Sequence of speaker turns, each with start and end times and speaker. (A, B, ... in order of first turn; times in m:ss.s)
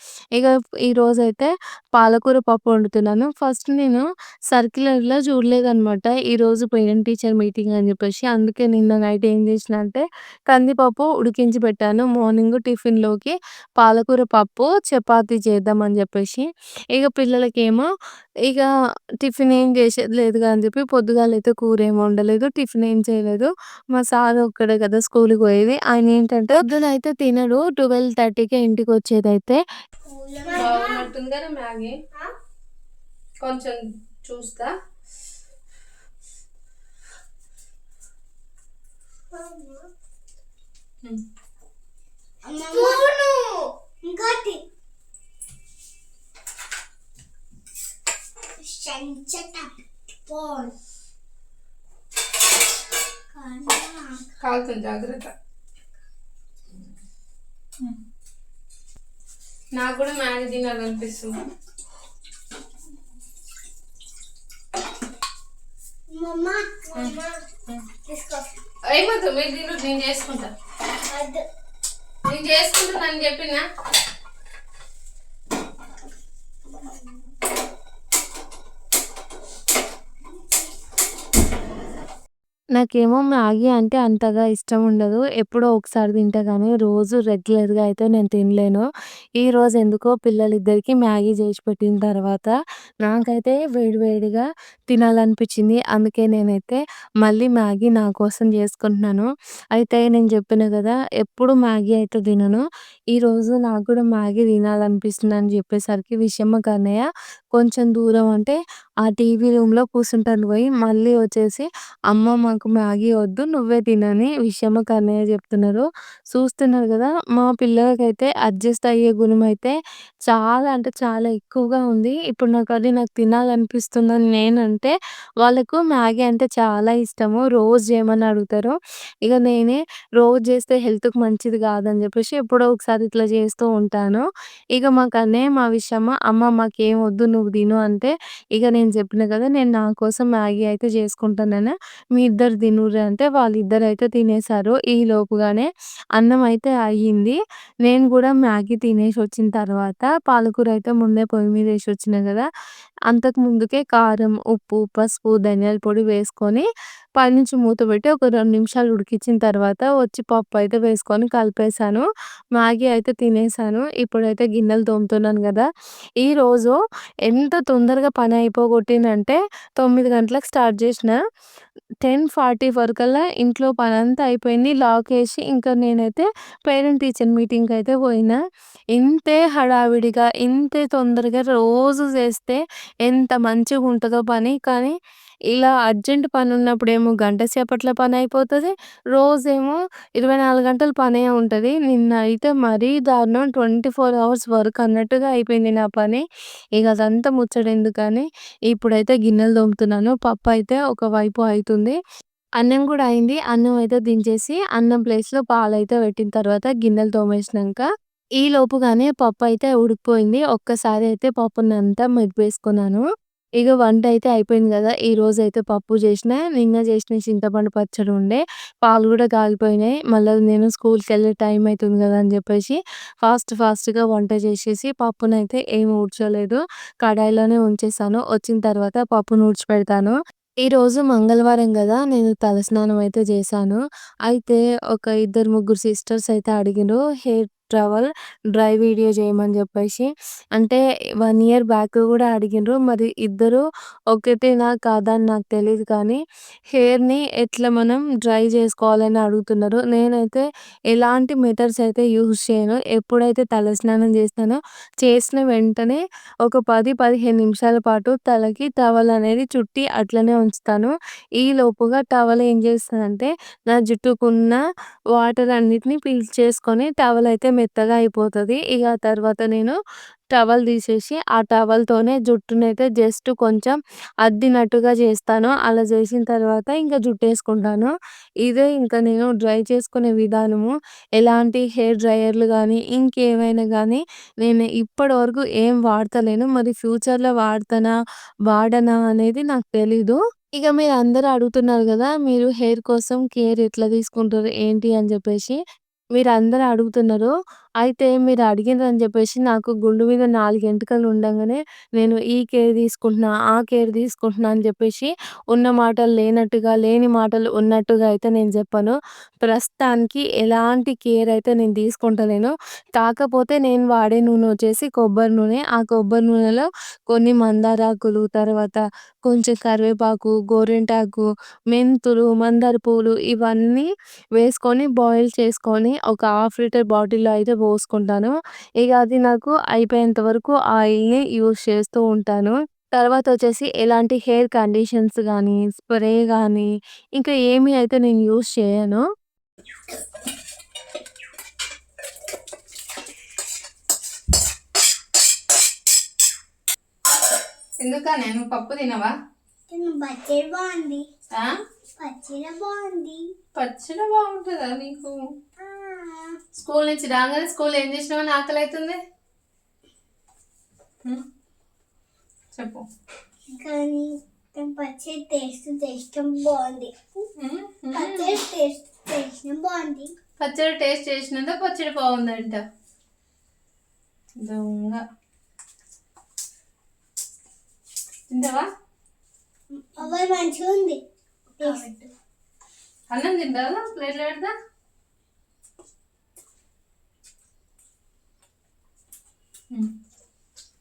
0:00.4-0:17.9 A
0:19.2-0:29.6 A
0:30.0-0:31.1 B
0:30.5-0:31.9 C
0:33.4-0:34.7 C
0:39.3-0:39.9 B
0:42.4-0:44.6 B
0:42.7-0:43.0 C
0:48.6-0:49.7 B
0:50.2-0:50.7 B
0:53.3-0:54.3 B
0:54.4-0:55.3 C
0:59.8-1:01.3 C
1:06.1-1:07.4 B
1:08.0-1:08.5 B
1:08.9-1:10.5 C
1:11.1-1:11.4 B
1:12.2-1:13.6 C
1:16.7-1:17.3 B
1:22.8-1:28.8 A
1:29.4-1:42.6 A
1:43.1-1:59.8 A
2:00.3-2:32.4 A
2:33.1-2:42.0 A
2:42.6-2:45.7 A
2:46.2-2:51.2 A
2:52.0-2:58.4 A
2:58.9-3:04.9 A
3:05.5-3:16.2 A
3:16.8-3:22.0 A
3:22.6-3:27.8 A
3:28.4-3:33.0 A
3:33.6-4:06.2 A
4:06.7-4:24.6 A
4:25.2-4:29.8 A
4:30.3-4:37.9 A
4:38.4-4:47.9 A
4:48.5-4:55.6 A
4:56.1-4:57.3 A
4:57.8-5:39.0 A
5:47.8-5:49.1 C
5:49.7-5:51.0 B
5:52.0-5:53.2 B
5:53.6-5:55.2 C
5:55.6-5:56.4 B
5:56.5-5:59.0 C
6:02.5-6:02.8 C
6:03.5-6:06.9 B
6:07.4-6:08.4 C
6:07.9-6:10.1 B
6:10.4-6:12.6 C
6:14.4-6:15.0 C
6:18.3-6:18.7 C
6:19.7-6:21.0 B
6:21.6-6:22.1 B
6:23.1-6:24.5 C